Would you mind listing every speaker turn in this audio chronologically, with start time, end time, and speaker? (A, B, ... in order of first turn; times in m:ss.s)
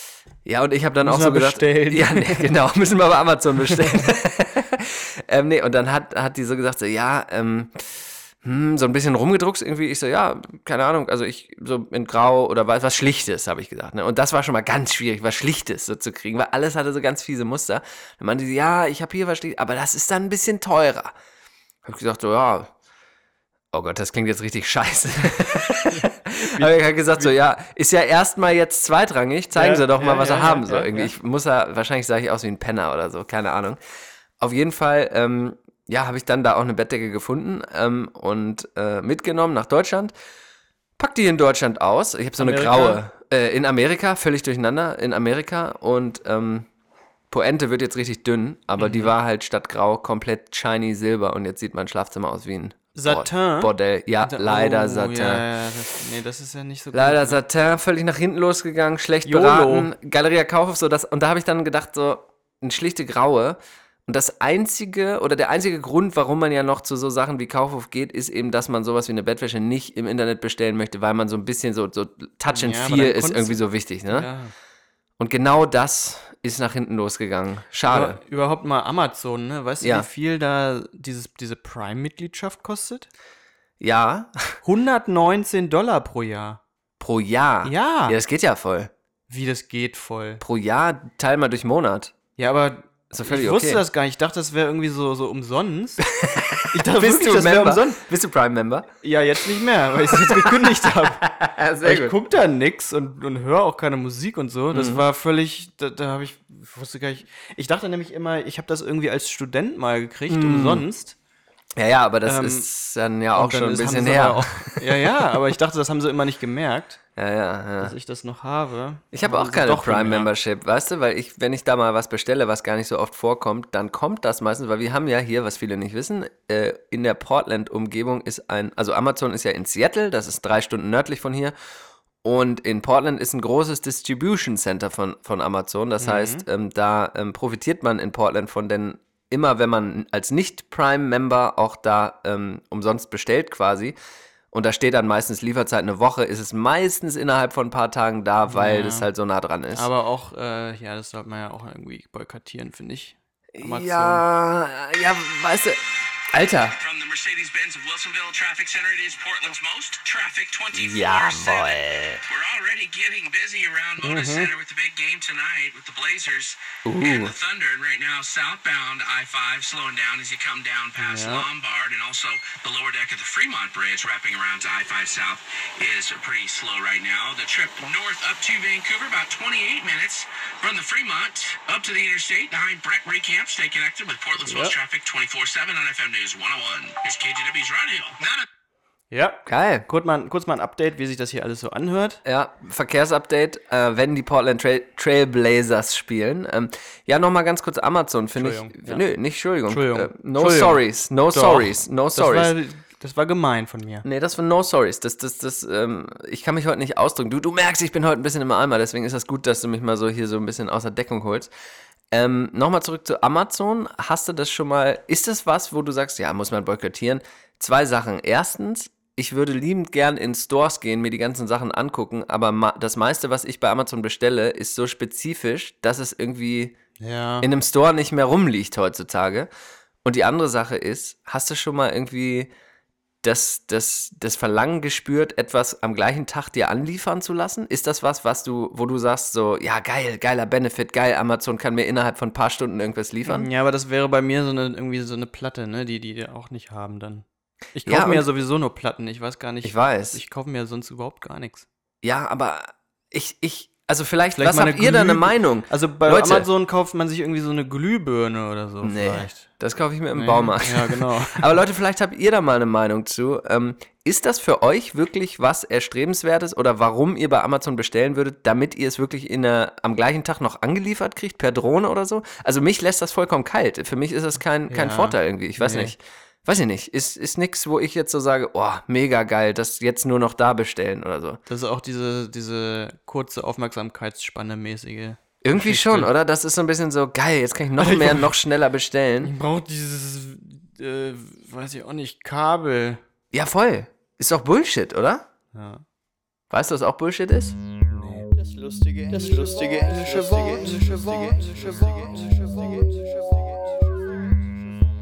0:00.4-0:21.1 A
0:01.0-0:02.5 B
0:03.7-0:04.0 B
0:21.8-0:22.7 A
0:23.7-0:33.8 A
0:25.9-0:27.3 B
0:29.6-0:31.1 B
0:34.4-0:40.1 A
0:41.0-0:46.7 A
0:42.4-0:43.0 B
0:47.3-0:55.4 A
0:48.8-0:49.1 B
0:53.0-0:57.4 B
0:56.9-1:14.3 A
0:59.2-0:59.9 B
1:12.5-1:14.5 B
1:15.2-1:18.2 A
1:17.9-1:23.1 B
1:19.8-1:20.1 A
1:23.8-1:24.6 A
1:24.6-1:26.6 B
1:27.0-1:28.9 A
1:27.6-1:28.2 B
1:29.3-1:30.4 B
1:30.4-1:32.1 A
1:32.4-1:36.0 B
1:33.1-1:33.8 A
1:36.1-1:38.9 A
1:36.7-1:38.0 B
1:39.0-1:41.2 B
1:40.1-1:42.2 A
1:41.8-1:51.2 B
1:44.7-1:45.0 A
1:50.3-1:50.8 A
1:51.8-1:55.1 A
1:52.2-1:52.7 B
1:53.3-1:57.0 B
1:57.2-1:58.0 A
1:57.8-2:00.3 B
1:59.1-2:11.6 A
2:12.2-2:24.0 A
2:16.0-2:16.5 B
2:24.5-2:29.9 A
2:28.5-2:29.1 B
2:29.7-2:34.3 B
2:33.5-2:35.8 A
2:36.3-2:36.8 A
2:36.8-3:08.4 C
2:40.7-2:42.2 A
2:44.0-2:44.5 B
2:46.8-2:47.3 A
2:51.0-2:51.4 B
3:04.4-3:04.7 B
3:09.1-3:12.2 B
3:09.5-3:09.9 A
3:12.2-3:22.5 A
3:18.4-3:19.0 B
3:19.7-3:24.1 B
3:24.0-3:31.5 A
3:32.1-3:46.8 A
3:47.0-3:47.5 B
3:47.4-3:49.5 A
3:50.0-3:52.5 A
3:53.2-4:03.5 A
4:03.2-4:11.7 B
4:07.9-4:08.3 A
4:09.6-4:10.2 A
4:12.0-4:16.5 A
4:14.4-4:19.5 B
4:18.8-4:41.4 A
4:20.1-4:21.6 B
4:34.7-4:35.9 B
4:41.5-4:46.1 B
4:45.4-4:49.3 A
4:47.8-4:48.3 B
4:49.2-4:53.0 B
4:53.3-4:55.3 A
4:55.5-4:55.8 B
4:56.5-4:57.6 A
4:57.9-4:58.3 B
4:59.0-5:02.4 B